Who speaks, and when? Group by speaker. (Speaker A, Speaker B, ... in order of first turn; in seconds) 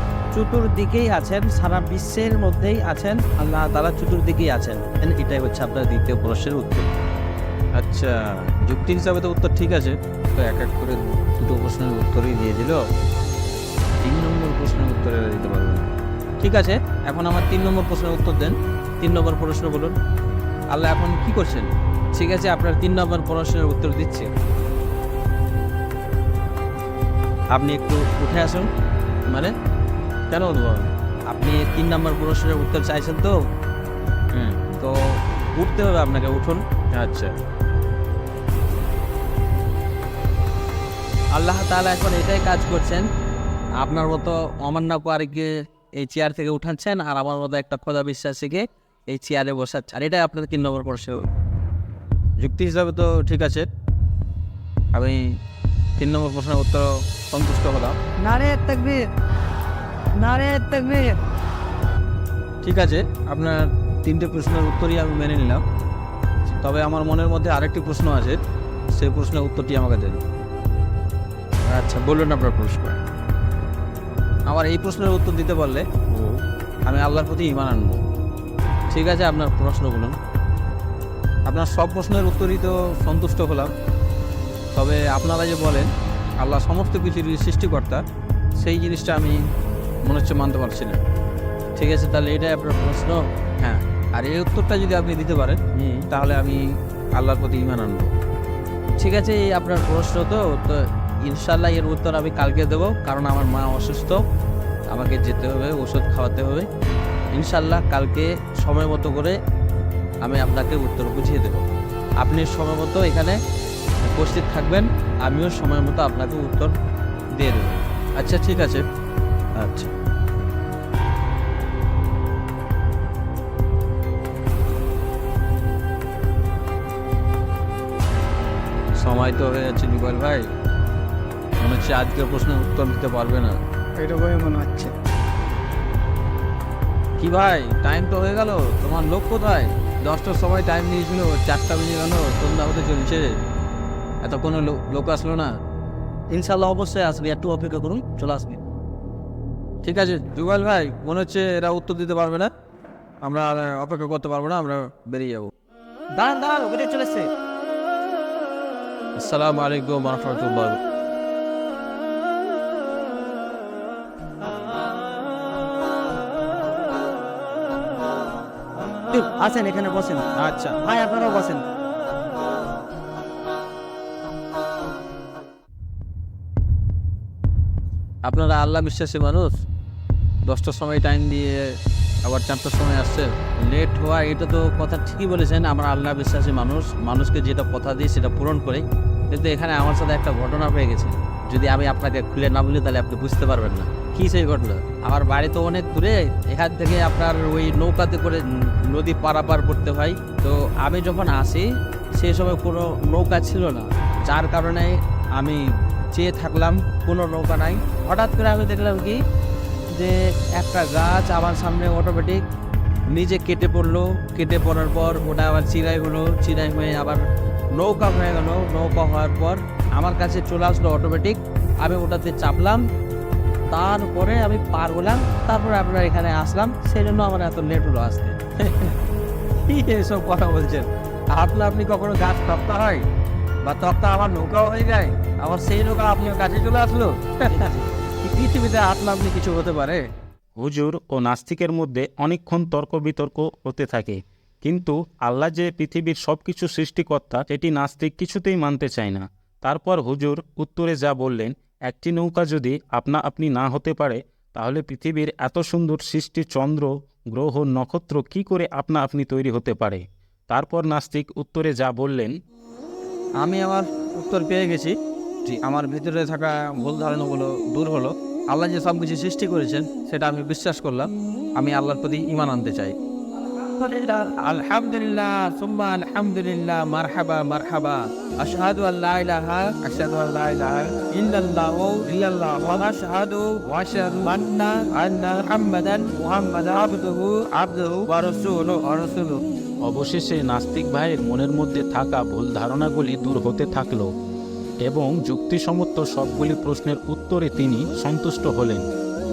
Speaker A: 0.3-6.9, 7.8-12.8, 14.0-15.9, 16.4-19.9, 20.7-24.3, 27.5-28.7, 29.3-29.5, 30.3-33.4, 34.3-35.0, 35.5-37.3, 41.3-43.1, 43.8-51.3, 52.4-53.7, 54.9-55.2, 56.0-58.0, 62.6-65.6, 66.5-68.4, 68.9-70.2, 71.7-73.0, 74.5-78.0, 78.9-80.2, 81.5-83.7, 84.8-88.0, 88.6-89.4, 90.0-91.0, 91.8-96.6, 97.2-98.1, 99.0-104.2, 104.9-106.7, 107.3-109.4, 110.2-111.7, 112.2-113.4, 114.0-116.7, 117.4-118.8, 119.6-119.9, 129.0-130.5, 131.6-133.6, 137.2-143.3, 144.2-145.6, 149.8-152.5, 153.2-155.5, 159.2-160.8, 170.4-170.8, 178.2-179.6, 180.5-181.6, 182.2-209.2, 209.9-212.4, 213.1-217.2, 217.8-222.8, 223.7-229.0, 229.6-233.0, 233.6-240.0, 263.4-264.9, 265.5-273.0, 273.6-289.4
Speaker B: 58.2-59.0, 60.2-61.1, 134.0-134.9, 146.3-148.6, 156.2-157.3, 169.1-170.2, 170.8-171.6
Speaker C: 240.6-262.3, 289.8-294.1, 294.8-298.9